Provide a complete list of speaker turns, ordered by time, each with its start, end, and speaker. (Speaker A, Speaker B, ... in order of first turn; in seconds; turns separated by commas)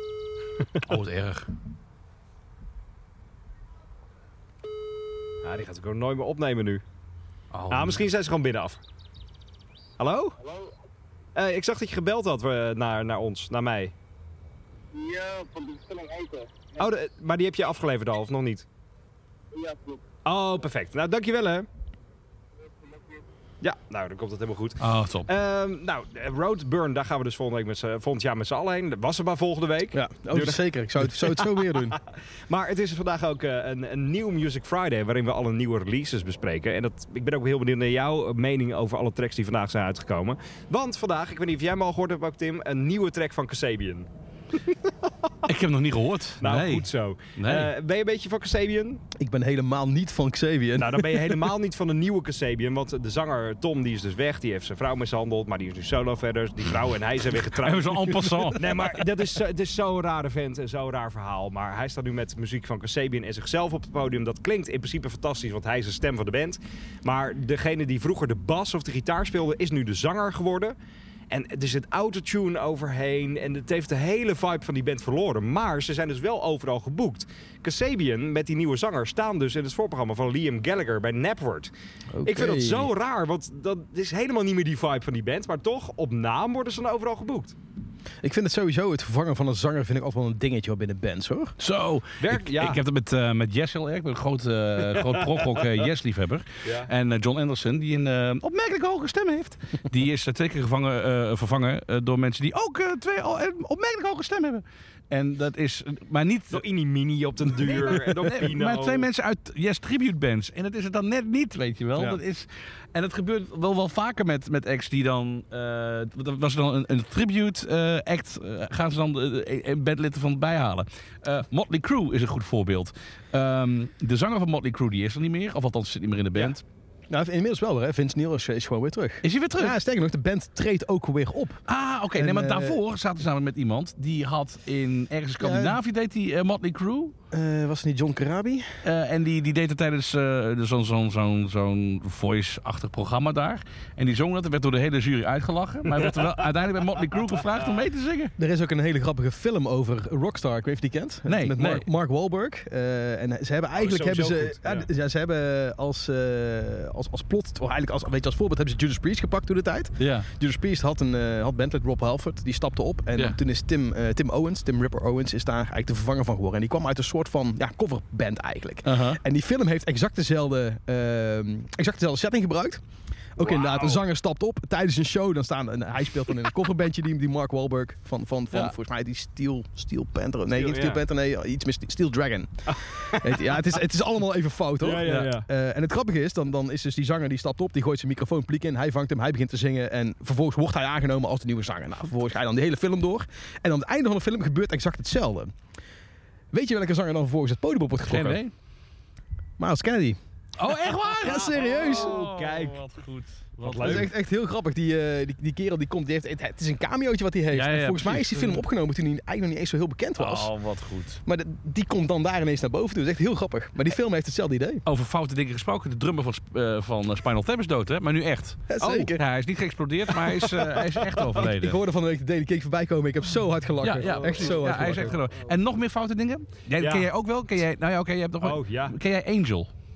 Speaker A: 0.8-1.5, Speaker B: 5.4-6.8, Speaker A: 7.5-8.1, Speaker B: 7.7-8.8, Speaker B: 10.0-10.4, Speaker B: 11.3-13.9, Speaker C: 14.9-16.6, Speaker B: 16.8-18.7, Speaker C: 19.5-20.0, Speaker B: 20.2-21.7, Speaker C: 22.7-23.2, Speaker B: 23.6-44.1, Speaker A: 24.8-25.3, Speaker D: 29.9-32.0, Speaker B: 44.7-45.5, Speaker A: 45.5-47.7, Speaker B: 46.4-49.0, Speaker D: 49.2-51.5, Speaker B: 50.8-70.8, Speaker A: 57.5-58.9, Speaker B: 71.3-81.7, Speaker D: 82.2-82.9, Speaker B: 82.2-87.6, Speaker D: 88.2-91.6, Speaker A: 91.6-106.7, Speaker B: 92.2-92.8, Speaker B: 95.0-95.5, Speaker B: 106.5-109.1, Speaker A: 107.5-126.6, Speaker D: 127.1-131.6, Speaker A: 129.2-129.8, Speaker A: 131.7-137.1, Speaker D: 132.2-132.8, Speaker D: 135.4-135.8, Speaker D: 137.3-138.8, Speaker A: 138.8-148.3, Speaker D: 148.4-172.8, Speaker A: 151.3-151.9, Speaker B: 153.8-154.9, Speaker A: 160.0-160.3, Speaker A: 168.9-169.2, Speaker D: 173.4-195.5, Speaker B: 173.4-174.0, Speaker B: 180.6-181.0, Speaker B: 182.7-183.5, Speaker B: 184.8-185.5, Speaker D: 196.5-198.4, Speaker A: 198.1-198.5, Speaker D: 199.6-200.2, Speaker A: 200.6-204.1, Speaker B: 201.0-202.8, Speaker D: 201.2-202.2, Speaker B: 203.6-204.1, Speaker D: 203.8-210.5, Speaker A: 207.5-208.7, Speaker A: 210.2-211.2, Speaker D: 211.2-214.8, Speaker A: 214.9-221.8, Speaker D: 218.7-219.2, Speaker B: 218.8-219.1, Speaker B: 220.6-221.4, Speaker D: 221.4-225.2, Speaker A: 223.8-229.7, Speaker B: 224.0-225.5, Speaker B: 226.8-227.1, Speaker B: 228.4-228.9